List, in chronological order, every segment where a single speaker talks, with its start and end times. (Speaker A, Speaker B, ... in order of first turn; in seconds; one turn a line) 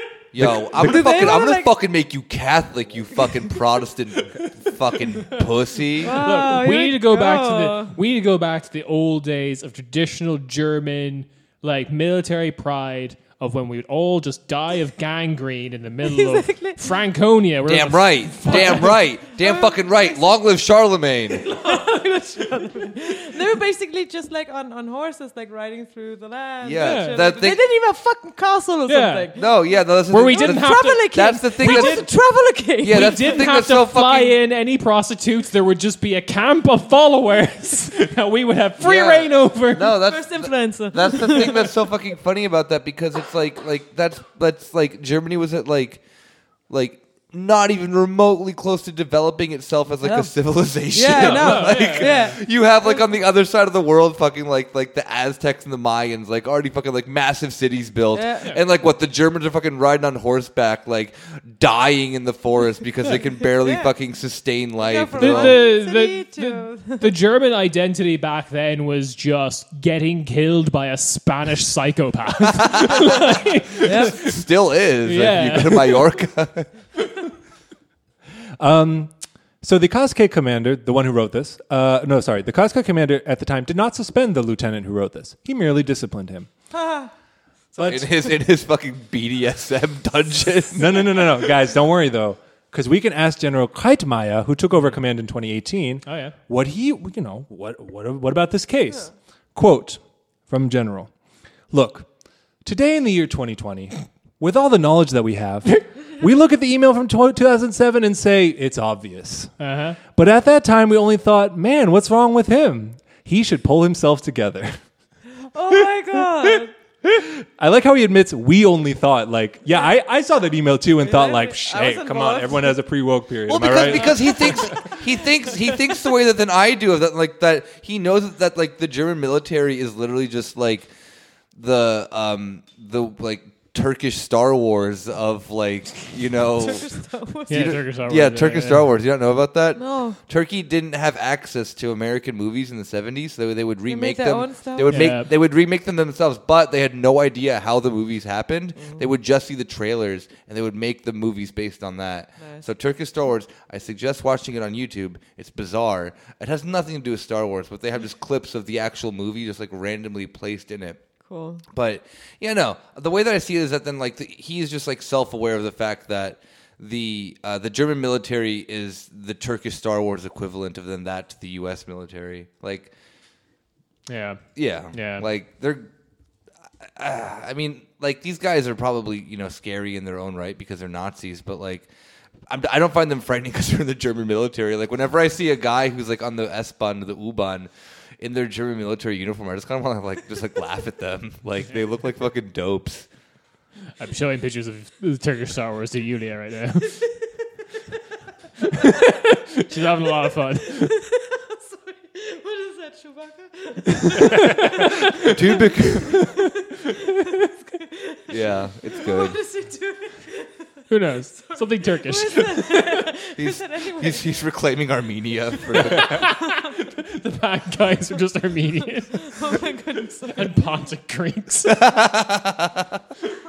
Speaker A: 0.3-6.2
Speaker B: 0.4-1.2
Speaker C: 0.7-1.7
Speaker C: 6.0-7.9
Speaker D: 6.0-18.9
Speaker C: 16.0-16.8
Speaker A: 17.6-21.5
Speaker C: 18.5-20.2
Speaker C: 21.4-33.5
Speaker D: 21.6-22.0
Speaker A: 26.6-27.6
Speaker D: 26.8-27.2
Speaker D: 28.9-32.1
Speaker A: 29.4-32.1
Speaker A: 32.8-34.4
Speaker D: 32.8-40.0
Speaker A: 38.8-65.6
Speaker C: 40.1-41.7
Speaker C: 50.0-53.1
Speaker D: 51.1-52.4
Speaker C: 58.1-58.5
Speaker C: 63.6-63.9
Speaker C: 64.8-67.1
Speaker D: 65.2-74.5
Speaker A: 73.8-76.7
Speaker C: 73.8-74.1
Speaker D: 75.0-76.2
Speaker B: 78.6-86.6
Speaker C: 86.7-87.1
Speaker B: 87.7-88.1
Speaker A: 87.8-91.4
Speaker B: 90.7-115.2
Speaker D: 96.0-96.3
Speaker D: 109.6-110.0
Speaker C: 115.5-116.7
Speaker B: 115.8-116.4
Speaker B: 117.0-124.8
Speaker C: 121.0-122.8
Speaker A: 123.5-172.9
Speaker C: 136.6-137.8
Speaker D: 137.5-138.9
Speaker C: 139.7-140.2
Speaker C: 143.9-145.1
Speaker D: 144.9-145.3
Speaker C: 148.8-149.1
Speaker C: 152.4-152.7
Speaker C: 161.2-161.6
Speaker D: 174.1-175.3
Speaker A: 174.5-175.9
Speaker A: 176.8-193.1
Speaker D: 194.0-197.4
Speaker D: 198.8-200.9
Speaker C: 200.8-206.9
Speaker D: 204.6-204.9
Speaker A: 205.3-206.1
Speaker C: 207.8-214.3
Speaker A: 208.3-209.4
Speaker D: 210.9-213.0
Speaker A: 213.3-216.1
Speaker D: 216.0-219.5
Speaker C: 219.0-220.7
Speaker D: 220.3-221.9
Speaker A: 221.7-222.9